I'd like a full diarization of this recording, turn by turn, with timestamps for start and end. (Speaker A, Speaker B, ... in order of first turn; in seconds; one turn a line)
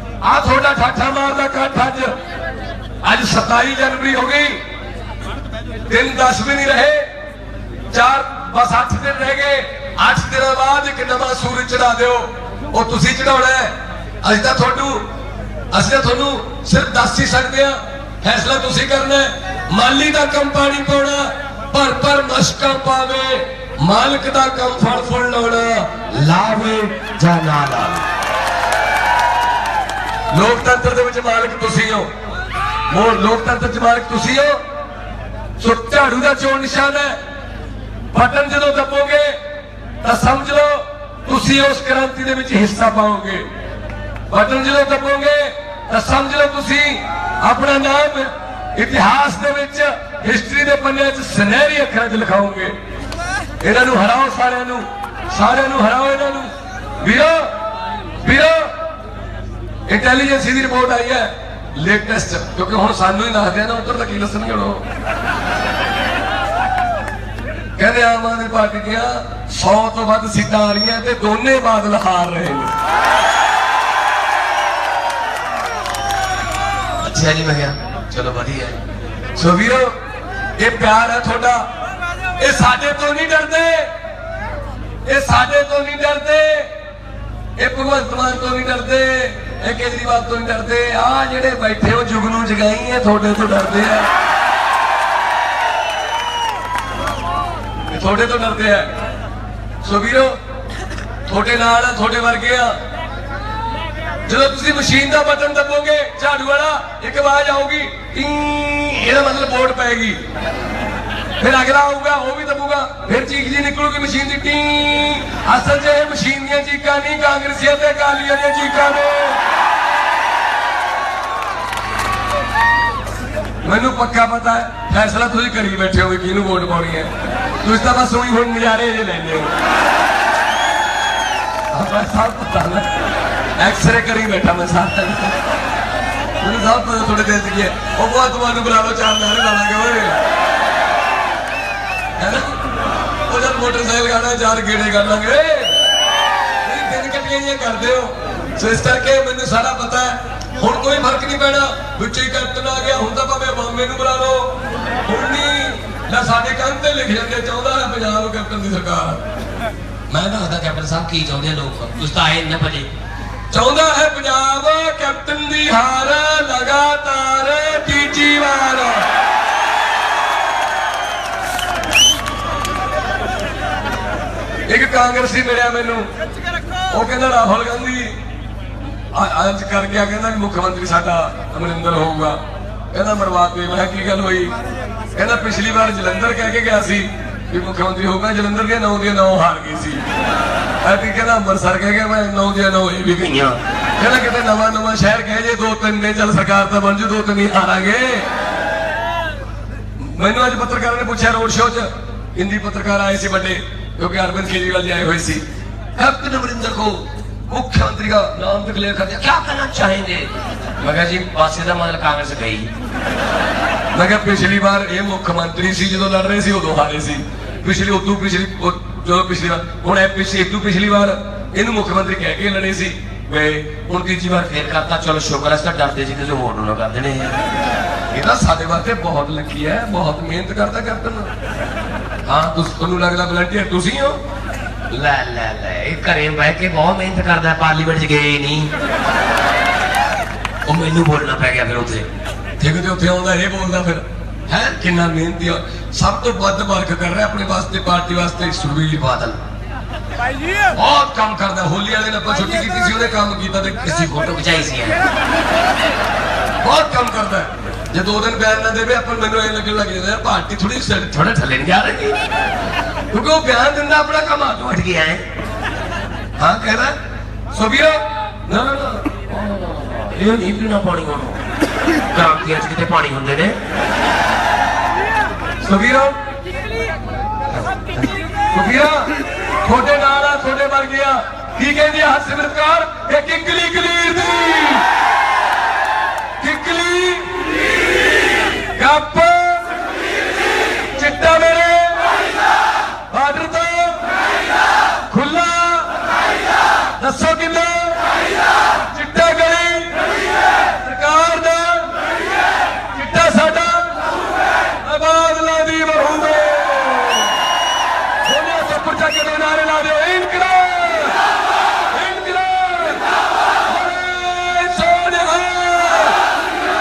Speaker A: 0.2-2.1
Speaker A: 3.0-4.6
Speaker A: 5.9-7.1
Speaker A: 7.9-13.7
Speaker A: 14.2-15.0
Speaker A: 15.7-28.0
Speaker A: 30.3-32.1
Speaker A: 32.9-34.6
Speaker A: 35.6-37.2
Speaker A: 38.1-39.4
Speaker A: 40.0-43.4
Speaker A: 44.3-52.7
Speaker A: 53.6-56.5
Speaker A: 57.0-57.5
Speaker A: 58.2-58.7
Speaker A: 59.9-64.8
Speaker A: 67.8-72.7
Speaker B: 77.0-78.8
Speaker A: 79.3-79.9
Speaker A: 80.6-81.6
Speaker A: 82.4-83.9
Speaker A: 85.0-86.7
Speaker A: 87.6-94.1
Speaker A: 97.9-98.9
Speaker A: 99.8-100.3
Speaker A: 101.3-102.7
Speaker A: 104.2-110.2
Speaker A: 111.4-119.4
Speaker A: 123.6-127.1
Speaker A: 127.6-129.5
Speaker A: 131.7-132.9
Speaker A: 133.6-135.4
Speaker A: 136.4-140.2
Speaker A: 142.2-142.6
Speaker A: 143.3-145.8
Speaker A: 146.6-154.5
Speaker A: 155.1-159.2
Speaker B: 160.2-162.9
Speaker A: 163.5-169.1
Speaker A: 174.7-176.0
Speaker A: 176.9-178.1
Speaker A: 179.1-182.4
Speaker A: 182.9-184.5
Speaker A: 185.1-190.0
Speaker A: 190.8-198.3
Speaker A: 200.0-205.4
Speaker A: 206.0-207.0
Speaker A: 207.5-209.5
Speaker B: 209.3-210.3
Speaker A: 210.8-211.1
Speaker B: 210.8-212.7
Speaker A: 213.9-224.8
Speaker B: 224.5-227.4
Speaker A: 228.1-231.3
Speaker A: 232.2-234.2
Speaker B: 234.9-238.7
Speaker B: 240.7-242.0
Speaker A: 242.6-249.4
Speaker A: 250.8-254.5
Speaker B: 254.3-255.0
Speaker A: 256.6-262.1
Speaker A: 263.1-265.2
Speaker A: 266.4-266.9
Speaker A: 267.5-269.6
Speaker B: 269.5-271.4
Speaker B: 272.1-273.6
Speaker A: 275.6-276.1
Speaker A: 278.5-279.1
Speaker A: 279.6-284.9
Speaker A: 286.4-287.4
Speaker A: 288.8-289.7
Speaker A: 290.9-292.1
Speaker A: 293.1-294.0
Speaker A: 295.1-295.9
Speaker A: 297.0-298.0
Speaker A: 298.9-299.9
Speaker A: 300.8-301.9
Speaker A: 302.9-304.0
Speaker A: 304.8-307.3
Speaker A: 308.2-311.2
Speaker A: 311.9-313.0
Speaker A: 313.7-316.2